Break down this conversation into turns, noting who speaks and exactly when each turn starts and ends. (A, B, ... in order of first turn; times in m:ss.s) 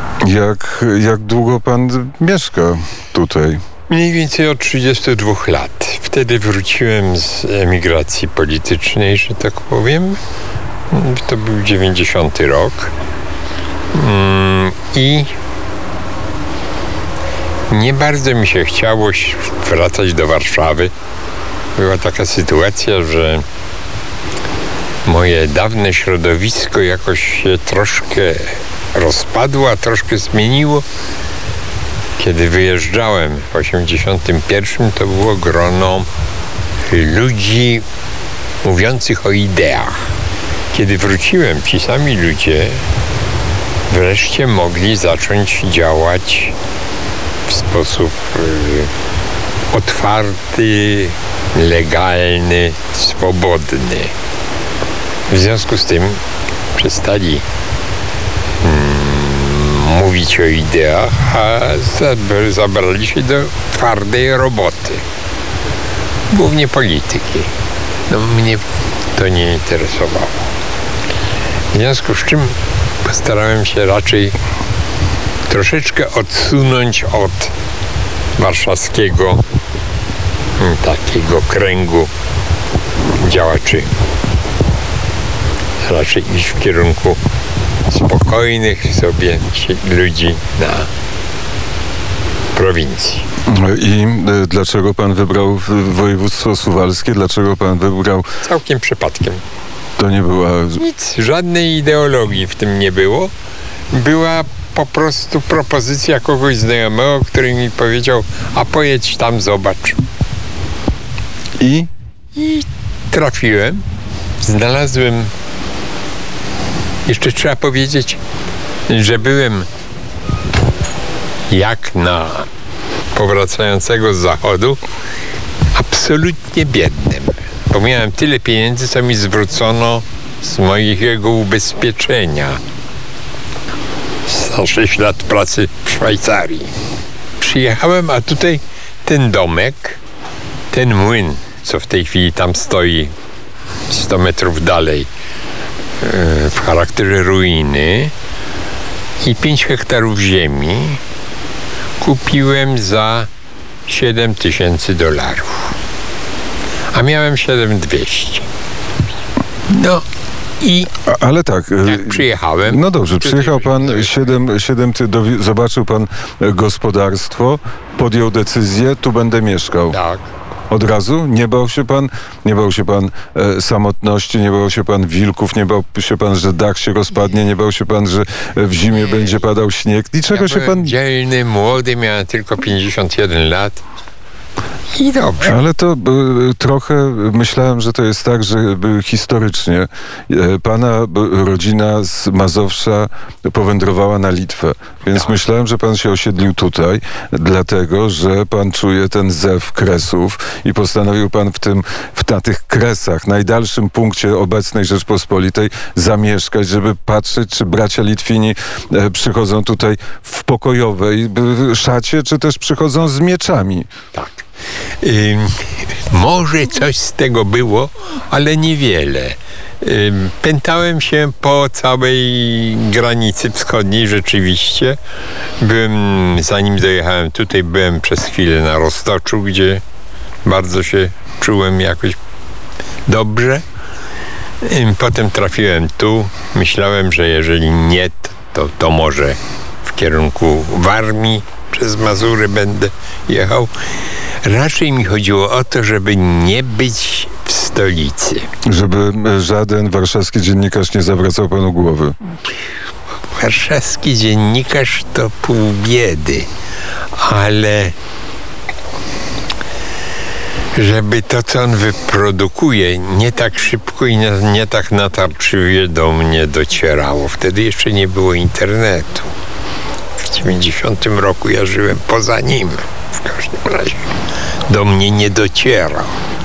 0:00.2-0:03.6 A
0:03.9-0:10.2 B
0:10.9-0:12.9 B
0:13.9-0:15.4 B
0:17.7-0:20.9 B
0:21.8-0:23.4 B
0:25.0-0:30.8 B
0:32.2-0:36.1 B
0:36.9-0:37.8 B
0:38.6-0:40.1 B
0:40.7-0:42.9 B
0:43.9-0:46.6 B
0:47.5-0:48.9 B
0:49.7-0:54.1 B
0:55.3-0:56.2 B
0:56.8-0:57.5 B
0:58.6-1:05.0 B
1:06.3-1:07.5 B
1:08.1-1:10.5 B
1:11.7-1:14.4 B
1:15.5-1:17.5 B
1:18.4-1:19.4 B
1:20.6-1:22.1 B
1:23.2-1:23.9 B
1:25.8-1:27.2 B
1:27.9-1:30.9 B
1:32.5-1:33.3 B
1:33.5-1:38.3 A
1:38.4-1:39.4 B
1:40.0-1:40.8 A
1:40.8-1:43.3 B
1:43.9-1:50.0 B
1:51.6-1:51.9 A
1:52.4-1:53.8 B
1:54.4-1:55.3 B
1:57.1-1:58.2 B
1:58.9-1:59.7 B
2:01.5-2:02.5 B
2:03.1-2:04.8 B
2:05.7-2:12.6 B
2:14.3-2:16.7 B
2:17.4-2:20.0 B
2:20.7-2:23.1 B
2:23.9-2:25.1 B
2:26.0-2:28.1 B
2:29.2-2:31.0 B
2:32.0-2:33.3 B
2:33.9-2:35.8 B
2:36.9-2:38.5 B
2:39.7-2:40.0 B
2:40.6-2:40.9 B
2:40.9-2:50.0 A
2:41.8-2:44.2 B
2:49.9-2:50.2 B
2:50.7-3:00.9 A
2:59.1-2:59.3 B
3:00.3-3:03.8 B
3:04.9-3:05.6 B
3:05.4-3:33.9 A
3:34.2-3:34.4 B
3:35.0-3:45.0 B
3:45.6-3:49.8 B
3:50.4-3:52.2 B
3:53.1-3:53.6 B
3:54.6-4:03.7 B
4:04.4-4:08.5 B
4:08.6-4:12.2 A
4:13.3-4:16.5 B
4:17.1-4:18.0 B
4:20.7-4:29.3 B
4:30.2-4:34.1 B
4:34.7-4:36.2 B